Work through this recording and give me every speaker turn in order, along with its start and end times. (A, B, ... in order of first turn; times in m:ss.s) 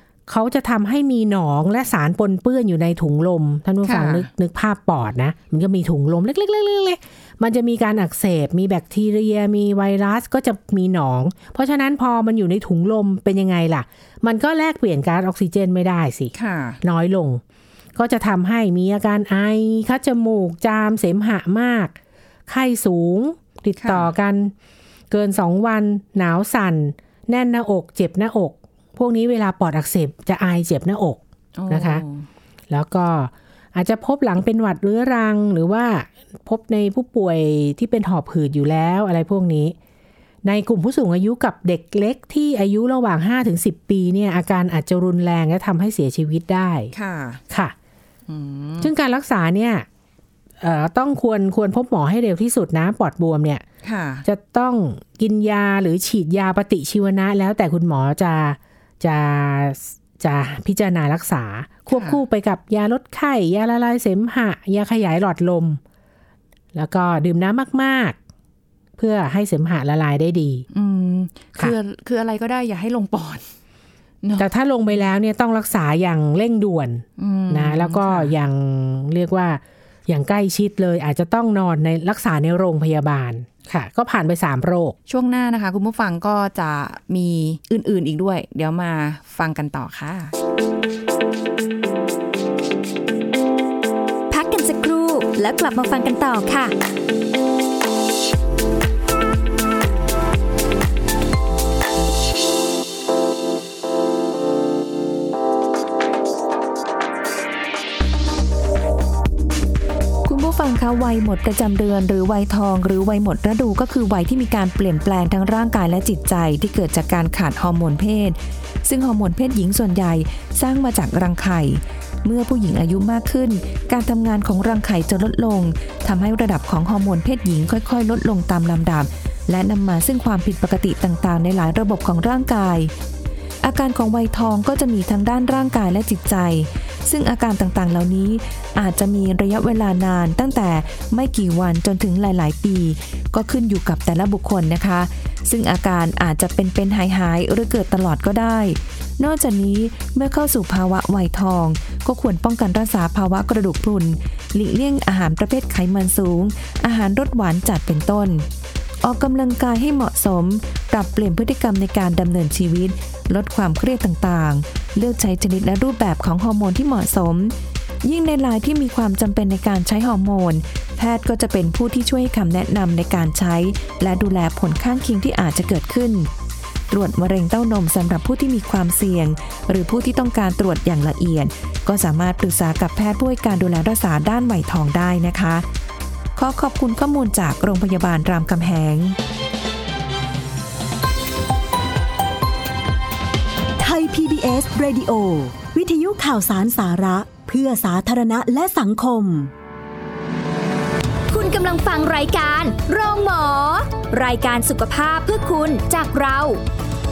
0:00.3-0:17.4 A
0:03.8-0:04.3 B
0:16.3-0:16.8 B
0:18.0-0:22.0 A
0:22.5-0:24.5 A
0:23.8-0:24.1 B
0:25.1-0:32.0 A
0:31.6-0:32.3 B
0:32.7-0:39.8 A
0:40.4-0:46.9 A
0:46.9-0:47.4 B
0:48.3-0:48.9 B
0:48.8-0:49.9 A
0:50.6-0:53.6 A
0:53.8-0:54.3 B
0:54.2-1:05.8 A
1:01.9-1:02.2 B
1:06.7-1:08.2 A
1:09.0-1:10.7 A
1:10.7-1:13.4 B
1:14.2-1:14.5 B
1:14.4-1:25.0 A
1:17.2-1:18.3 B
1:25.1-1:30.3 B
1:34.3-1:36.7 C
1:50.3-2:12.9 D
2:13.6-2:38.5 D
2:39.0-2:56.3 D
2:56.9-3:05.6 D
3:06.4-3:09.2 D
3:13.8-3:19.5 E
3:21.3-3:26.6 C